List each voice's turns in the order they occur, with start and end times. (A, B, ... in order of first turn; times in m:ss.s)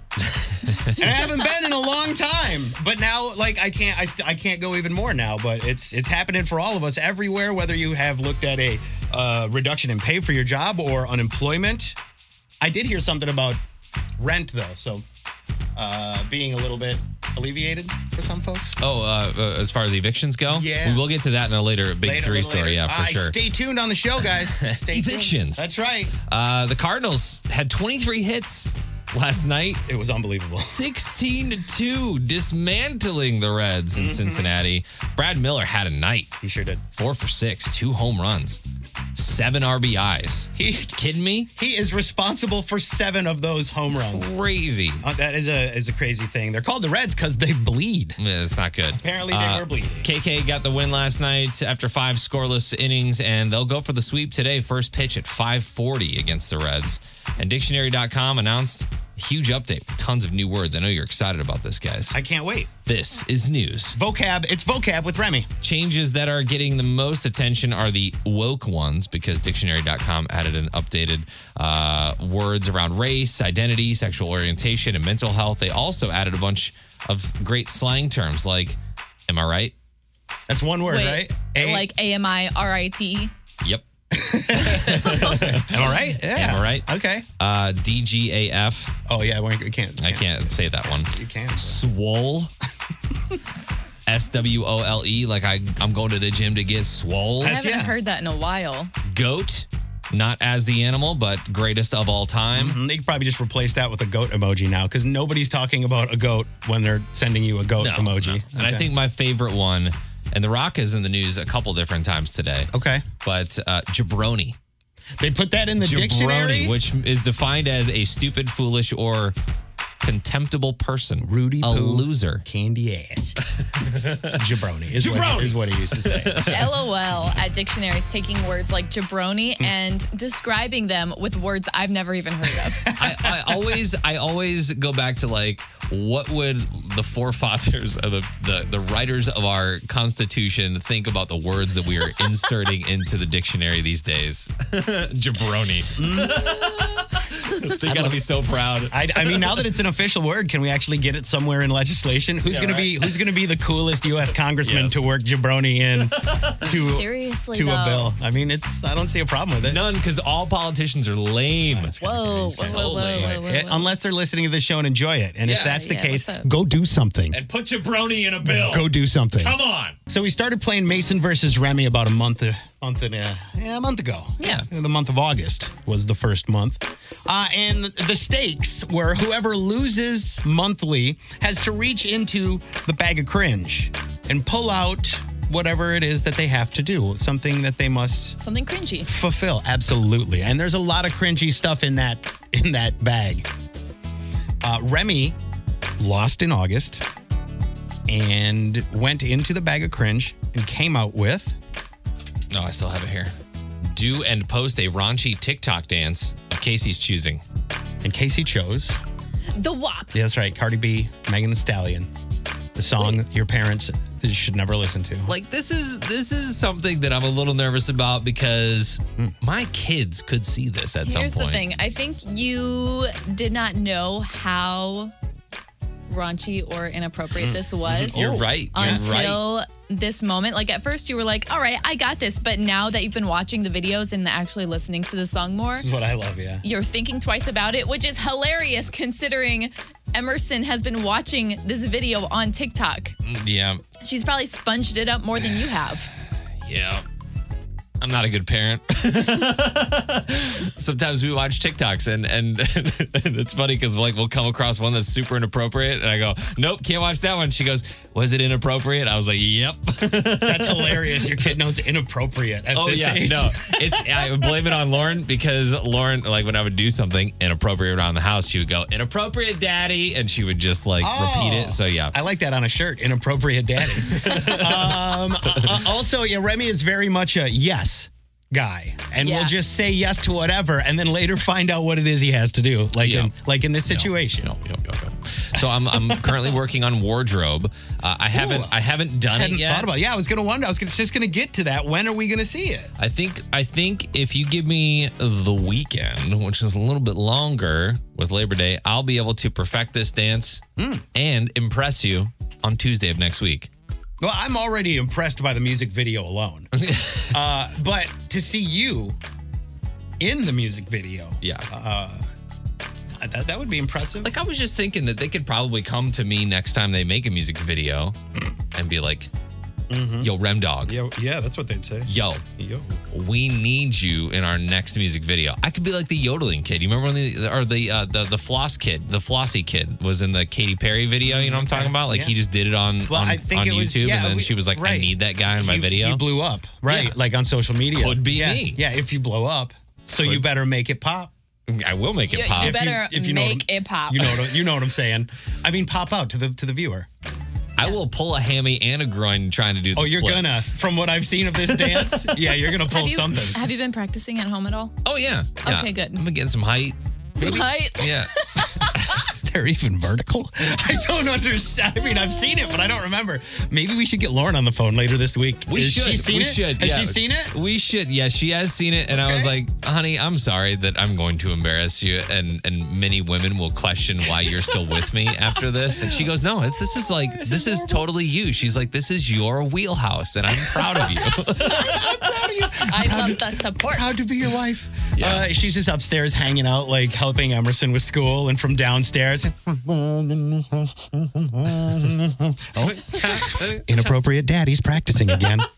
0:00.6-0:01.0 A
0:00.8-0:12.0 B
0:12.6-0:13.6 B
0:14.2-0:15.0 B
0:15.7-0:18.8 B
0:18.8-0:23.4 A
0:20.5-0:21.0 B
0:22.0-0:26.1 B
0:24.3-0:25.6 A
0:26.3-0:29.8 A
0:29.9-0:30.8 B
0:30.6-0:36.3 A
0:33.9-0:34.5 B
0:36.4-0:36.8 B
0:36.9-0:38.6 A
0:39.1-0:41.5 A
0:40.6-0:44.3 B
0:43.9-0:45.0 A
0:45.0-0:48.2 B
0:48.2-1:02.2 A
0:48.9-0:50.1 B
1:02.1-1:02.7 B
1:02.8-1:04.0 A
1:03.9-1:05.5 B
1:05.6-1:18.8 A
1:19.3-1:19.7 A
1:20.5-1:21.9 B
1:20.8-1:23.3 C
1:24.1-1:27.2 B
1:24.5-1:28.9 A
1:29.0-1:31.8 B
1:30.0-1:32.5 A
1:34.0-1:37.6 A
1:37.4-1:37.9 B
1:37.4-1:38.9 C
1:39.0-1:42.8 A
1:42.5-1:48.9 B
1:47.8-1:54.6 A
1:52.7-1:53.1 B
1:55.2-1:56.8 B
1:55.8-1:59.4 A
2:00.0-2:02.4 A
2:01.2-2:03.4 B
2:03.6-2:04.4 A
2:04.2-2:06.7 B
2:04.9-2:06.8 A
2:06.5-2:12.8 C
2:12.8-2:13.3 B
2:13.0-2:29.6 A
2:26.0-2:26.5 B
2:27.8-2:28.2 B
2:28.9-2:39.8 B
2:32.5-2:33.4 A
2:34.6-2:35.0 A
2:36.1-2:36.6 A
2:36.6-2:38.1 C
2:39.6-2:41.9 A
2:41.7-2:47.4 B
2:42.0-2:43.9 C
2:42.6-2:43.4 A
2:45.4-2:45.8 A
2:45.6-2:46.5 C
2:47.3-2:50.0 A
2:48.4-3:08.4 B
2:54.4-2:54.6 C
3:08.4-3:09.1 C
3:09.0-3:13.5 B
3:14.6-3:15.4 B
3:16.0-3:17.0 B
3:18.1-3:21.6 B
3:22.5-3:23.3 A
3:23.9-3:27.4 A
3:28.0-3:29.0 B
3:29.5-3:30.1 C
3:30.1-3:32.1 B
3:32.7-3:35.3 B
3:35.3-3:41.6 A
3:41.0-3:45.1 C
3:46.1-3:55.9 C
3:47.4-3:49.2 B
3:48.1-3:49.4 A
3:55.7-3:56.6 B
3:56.6-4:03.1 C
4:03.2-4:03.8 A
4:04.0-4:06.1 C
4:06.6-4:07.0 A
4:08.0-4:21.4 A
4:20.4-4:24.6 B
4:22.7-4:32.1 A
4:31.0-4:44.5 B
4:34.0-4:35.8 A
4:39.2-4:39.5 C
4:43.0-4:43.3 A
4:43.9-4:49.9 A
4:45.6-4:46.5 B
4:48.3-4:48.7 B
4:49.3-4:52.9 B
4:53.0-5:00.6 A
5:00.8-5:01.0 B
5:01.1-5:03.7 A
5:04.2-5:06.7 B
5:06.7-5:07.4 A
5:07.3-5:09.2 B
5:10.2-5:12.2 B
5:13.2-5:14.3 B
5:14.2-5:18.2 A
5:18.7-5:19.3 A
5:19.9-5:20.3 B
5:20.2-5:21.0 A
5:20.8-5:23.0 B
5:22.1-5:22.4 A
5:23.1-5:36.2 A
5:31.2-5:32.3 B
5:33.1-5:41.3 B
5:36.9-5:37.2 A
5:37.9-5:38.8 A
5:41.7-5:42.8 A
5:42.3-5:44.4 C
5:42.6-5:47.1 B
5:47.8-5:50.7 A
5:49.9-5:53.6 B
5:51.6-5:52.6 A
5:52.9-5:54.9 C
5:55.0-5:57.0 A
5:55.6-5:56.2 C
5:57.4-5:59.0 C
5:57.4-5:57.7 B
5:57.5-5:58.3 A
5:59.0-6:07.5 B
6:05.7-6:22.7 A
6:09.1-6:09.5 B
6:15.9-6:16.2 B
6:17.2-6:18.1 B
6:20.5-6:35.7 B
6:22.8-6:24.1 C
6:25.1-6:25.5 A
6:32.8-6:34.2 A